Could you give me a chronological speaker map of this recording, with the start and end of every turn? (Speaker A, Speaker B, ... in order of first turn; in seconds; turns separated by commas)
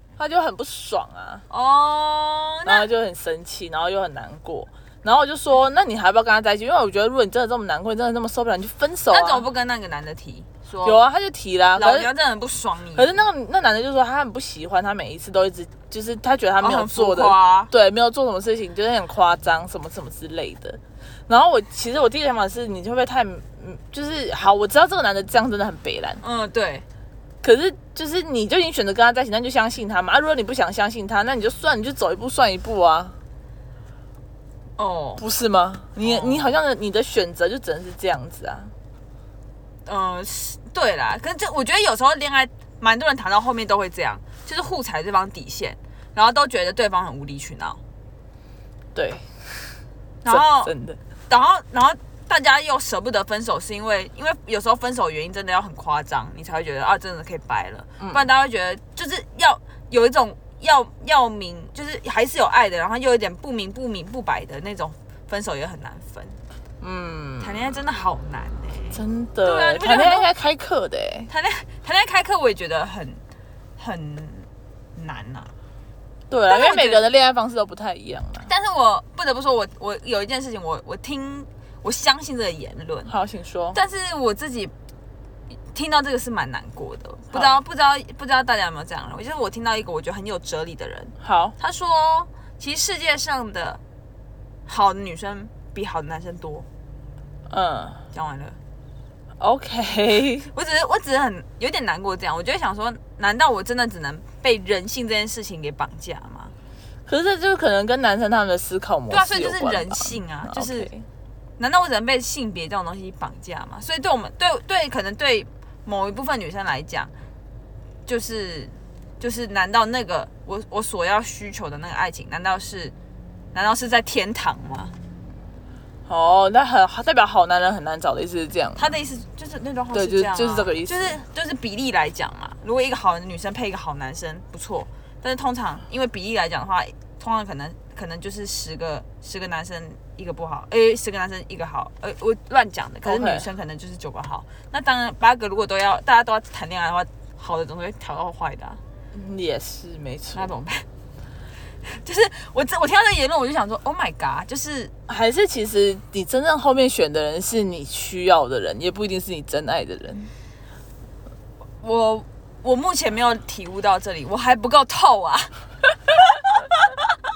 Speaker A: 0.2-1.4, Speaker B: 1.5-2.9, Speaker A: 2.7-9.5, Speaker B: 9.1-11.0, Speaker A: 10.8-12.1, Speaker B: 11.8-13.2, Speaker A: 13.0-26.2, Speaker B: 16.6-17.7, Speaker B: 26.2-26.9, Speaker A: 27.4-33.2, Speaker B: 34.8-35.2, Speaker A: 35.2-38.7, Speaker B: 36.0-36.5, Speaker B: 39.9-47.8, Speaker A: 48.9-49.8, Speaker B: 50.2-50.7, Speaker A: 50.3-51.0, Speaker B: 51.3-66.4, Speaker A: 58.0-58.3, Speaker A: 66.8-67.8, Speaker B: 67.4-70.3, Speaker A: 68.9-71.3, Speaker B: 71.3-73.2, Speaker B: 73.8-75.5, Speaker A: 76.3-78.5, Speaker B: 76.5-77.1, Speaker B: 78.4-83.1, Speaker A: 83.1-83.8, Speaker B: 83.7-84.7, Speaker B: 85.7-93.8, Speaker A: 87.3-87.6, Speaker A: 91.2-91.5, Speaker B: 94.7-96.7, Speaker A: 97.5-98.0, Speaker B: 98.1-98.6, Speaker A: 99.4-100.5, Speaker B: 100.5-106.5, Speaker A: 107.1-111.1, Speaker B: 109.1-110.9, Speaker B: 111.6-117.1, Speaker B: 118.1-122.9, Speaker B: 123.5-124.9, Speaker A: 126.1-128.9, Speaker B: 128.8-148.8, Speaker A: 129.9-131.2, Speaker A: 143.0-143.5, Speaker A: 149.1-150.5, Speaker B: 150.3-150.9, Speaker B: 151.8-154.9, Speaker A: 155.1-160.3, Speaker B: 161.8-167.0